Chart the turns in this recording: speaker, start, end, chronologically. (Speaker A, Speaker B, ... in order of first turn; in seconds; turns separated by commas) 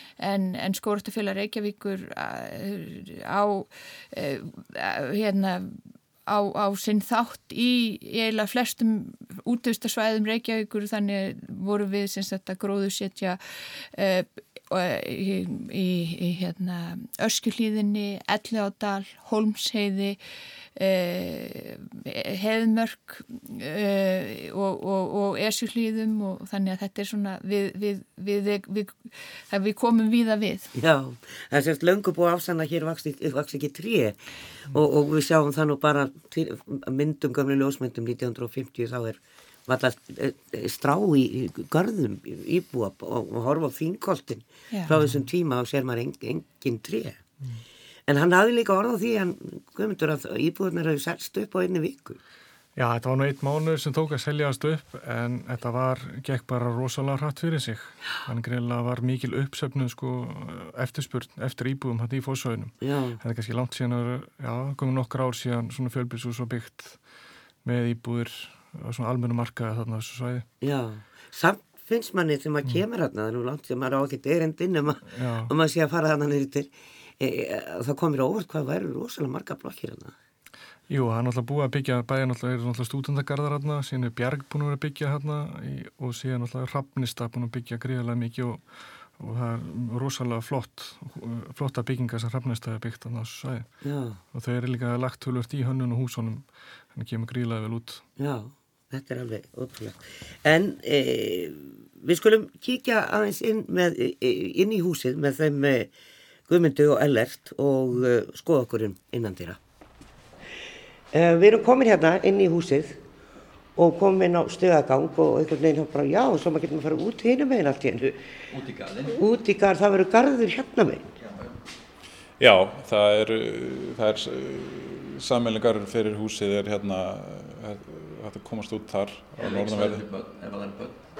Speaker A: 0.2-20.2, Speaker A: 20.8-30.7, Speaker B: 30.7-47.2, Speaker B: 48.1-52.2, Speaker C: 52.8-67.0, Speaker B: 62.8-63.2, Speaker C: 67.6-70.5, Speaker B: 70.6-80.1, Speaker C: 75.1-75.5, Speaker C: 80.9-93.7, Speaker B: 93.8-94.2, Speaker C: 94.3-98.0, Speaker B: 98.2-105.9, Speaker B: 106.5-109.6, Speaker B: 111.1-113.0, Speaker B: 113.8-118.3, Speaker D: 118.5-119.2, Speaker B: 119.1-121.1, Speaker D: 121.2-121.5, Speaker E: 122.4-130.0, Speaker D: 129.4-131.0